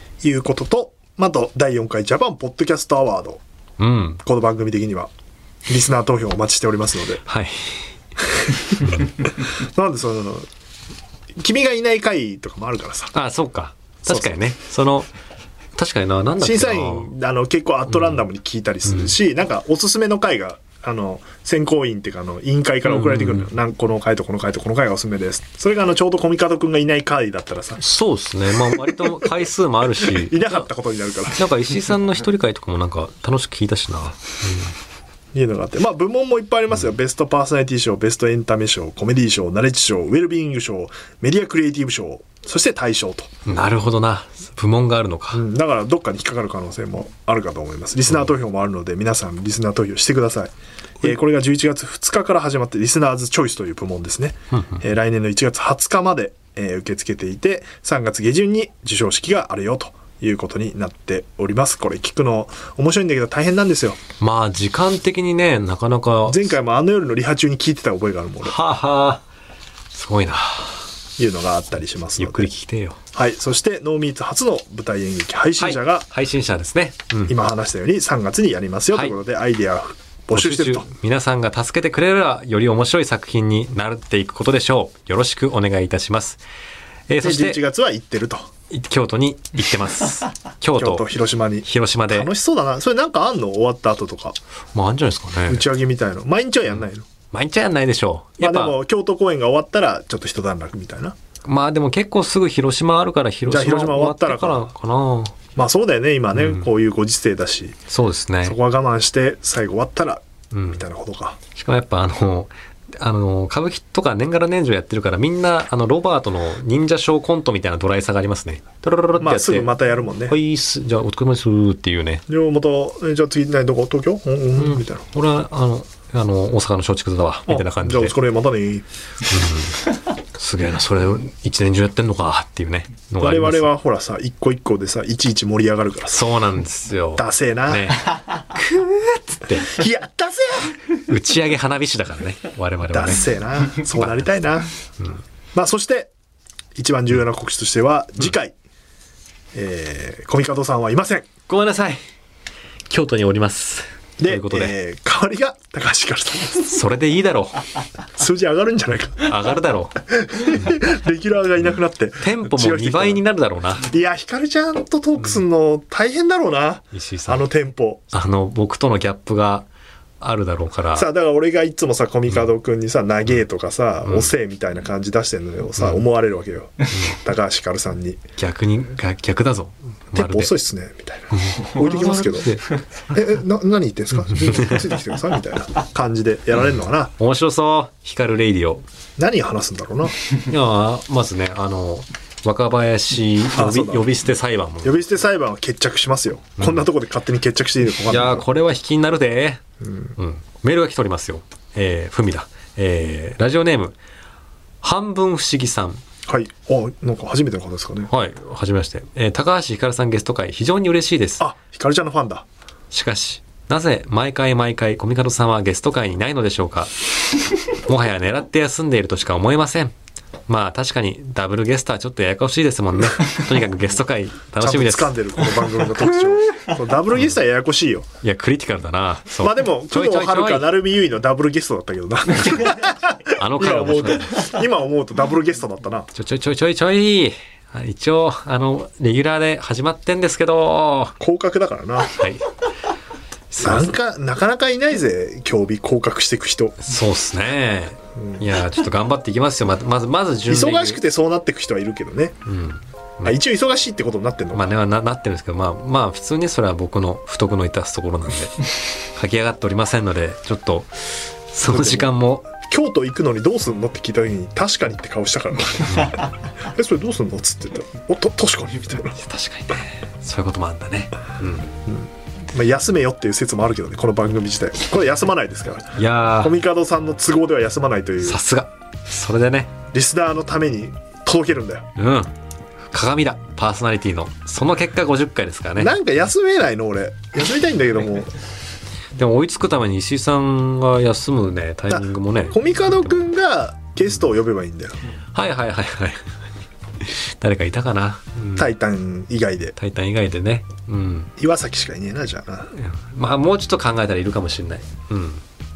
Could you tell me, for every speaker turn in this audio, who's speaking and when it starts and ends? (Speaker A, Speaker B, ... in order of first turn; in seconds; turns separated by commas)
Speaker A: 0.2-3.4, Speaker B: 3.8-4.2, Speaker A: 4.2-5.1, Speaker A: 5.7-7.2, Speaker B: 7.2-7.9, Speaker A: 8.3-10.5, Speaker B: 8.8-9.1, Speaker A: 11.4-13.1, Speaker B: 13.1-15.1, Speaker A: 14.0-14.4, Speaker B: 15.8-17.1, Speaker A: 16.4-27.8, Speaker B: 22.9-23.5, Speaker B: 27.8-30.7, Speaker A: 28.6-29.3, Speaker A: 30.0-31.4, Speaker B: 31.3-34.7, Speaker A: 35.3-43.3, Speaker B: 43.4-45.4, Speaker A: 45.3-64.0, Speaker B: 54.5-54.8, Speaker B: 64.2-66.5, Speaker A: 66.3-68.5, Speaker B: 68.4-69.2, Speaker B: 69.9-70.8, Speaker A: 71.2-72.5, Speaker B: 72.2-73.0, Speaker A: 73.1-76.1, Speaker B: 75.6-77.4, Speaker A: 77.3-80.9, Speaker B: 80.3-86.4, Speaker B: 87.1-87.6, Speaker A: 87.2-88.5, Speaker B: 88.7-91.0, Speaker A: 90.8-94.4, Speaker B: 91.6-92.3, Speaker B: 94.7-95.7, Speaker A: 95.5-97.1, Speaker B: 97.3-98.8, Speaker A: 98.4-101.2, Speaker B: 101.5-105.3, Speaker A: 103.5-104.7, Speaker A: 105.5-107.8, Speaker B: 106.3-106.7, Speaker B: 107.9-108.5, Speaker A: 108.4-111.4, Speaker B: 110.5-110.8, Speaker B: 111.5-119.7, Speaker A: 119.2-120.3, Speaker B: 120.2-122.2, Speaker A: 122.3-125.0, Speaker B: 124.5-128.2, Speaker A: 127.5-128.8, Speaker B: 129.3-133.7, Speaker A: 133.2-136.3, Speaker B: 136.1-139.7, Speaker A: 137.2-138.0, Speaker A: 139.5-140.8, Speaker B: 140.9-143.3, Speaker A: 142.9-144.7, Speaker B: 143.9-144.3, Speaker A: 145.5-146.1, Speaker A: 146.8-148.5, Speaker A: 149.5-151.3, Speaker B: 151.5-152.0, Speaker B: 152.9-154.7, Speaker A: 154.2-156.7, Speaker B: 156.6-157.7, Speaker A: 158.1-159.3, Speaker B: 159.2-159.9, Speaker A: 160.1-163.2, Speaker B: 162.2-163.9, Speaker A: 163.8-168.1, Speaker B: 166.9-167.4, Speaker B: 168.1-169.7, Speaker B: 170.2-171.1, Speaker A: 170.9-178.2, Speaker B: 178.4-180.5, Speaker A: 180.1-187.1, Speaker B: 181.3-182.8, Speaker B: 184.3-184.8, Speaker B: 187.2-188.8, Speaker A: 189.2-190.2, Speaker B: 190.4-195.0, Speaker A: 193.5-194.1, Speaker A: 194.8-198.4, Speaker B: 198.1-199.6, Speaker A: 199.8-200.1, Speaker B: 200.2-203.9, Speaker B: 204.8-206.0, Speaker A: 206.2-208.1, Speaker B: 208.1-211.4, Speaker A: 211.4-212.4, Speaker B: 212.9-216.9, Speaker B: 217.7-219.9, Speaker B: 220.5-225.2, Speaker A: 224.6-228.1, Speaker B: 228.2-230.7, Speaker A: 229.4-236.1, Speaker B: 233.3-234.4, Speaker B: 236.1-241.1, Speaker A: 241.2-242.2, Speaker B: 242.1-242.4, Speaker B: 243.5-243.9, Speaker A: 243.6-246.8, Speaker B: 246.8-251.0, Speaker A: 250.5-252.4, Speaker B: 252.4-253.4, Speaker A: 253.2-254.7, Speaker B: 254.5-262.5, Speaker A: 261.6-269.2, Speaker B: 265.9-266.2, Speaker B: 269.1-271.7, Speaker A: 271.9-278.4, Speaker B: 275.9-276.6, Speaker B: 278.2-279.7, Speaker A: 279.9-281.9, Speaker B: 281.9-282.3, Speaker B: 282.9-285.9, Speaker A: 285.8-288.3, Speaker B: 289.1-292.6, Speaker A: 291.9-295.0, Speaker B: 295.3-296.3, Speaker B: 297.0-298.7, Speaker A: 298.6-299.8, Speaker B: 299.8-301.3, Speaker A: 301.4-302.7, Speaker B: 302.7-305.4